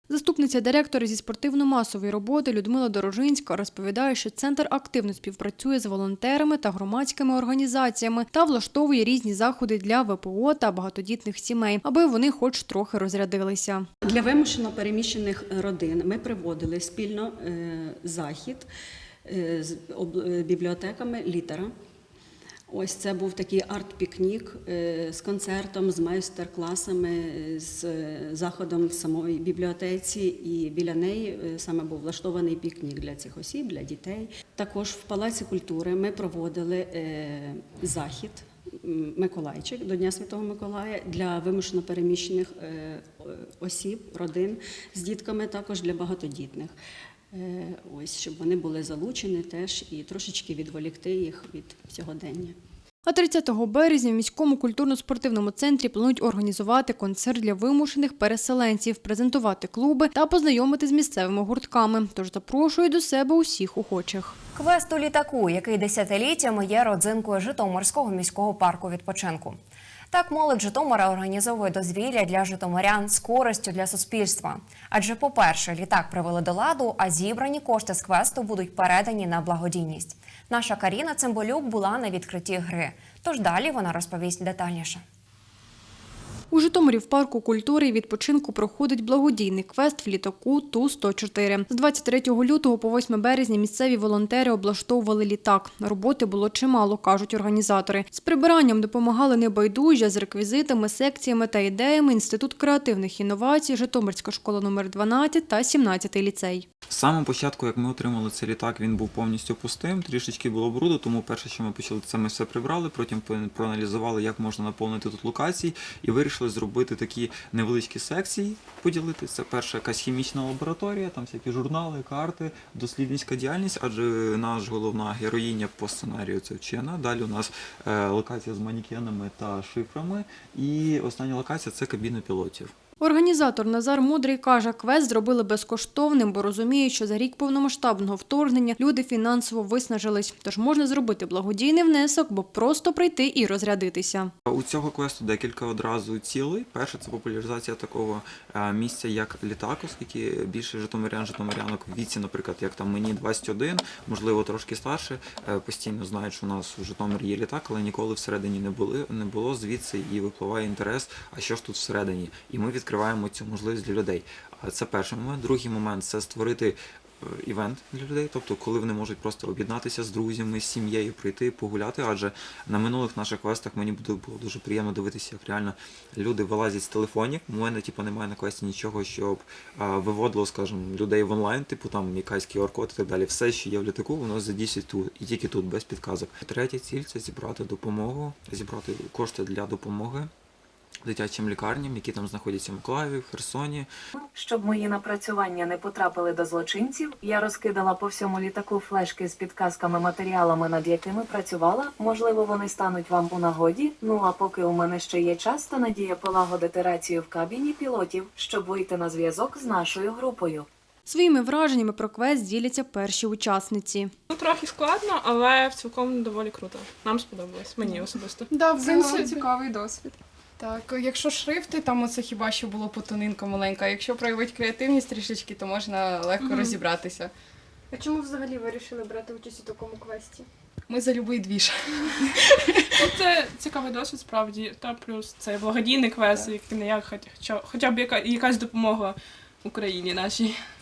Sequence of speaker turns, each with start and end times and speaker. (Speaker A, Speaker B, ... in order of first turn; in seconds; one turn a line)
Speaker A: 0.1-13.9
Speaker B: 14.0-18.7
Speaker B: 19.2-21.7
Speaker B: 22.7-46.8
Speaker B: 47.3-52.6
Speaker A: 53.0-64.3
Speaker C: 64.5-69.6
Speaker C: 70.1-85.0
Speaker A: 86.5-106.7
Speaker D: 106.9-132.7
Speaker A: 133.0-144.3
Speaker D: 144.5-190.3
Speaker D: 191.0-193.9
Speaker E: 194.1-210.7
Speaker A: 211.1-214.1
Speaker F: 214.3-219.4
Speaker G: 218.5-220.0
Speaker G: 220.6-227.3
Speaker H: 227.9-230.4
Speaker G: 230.9-231.7
Speaker F: 232.9-240.6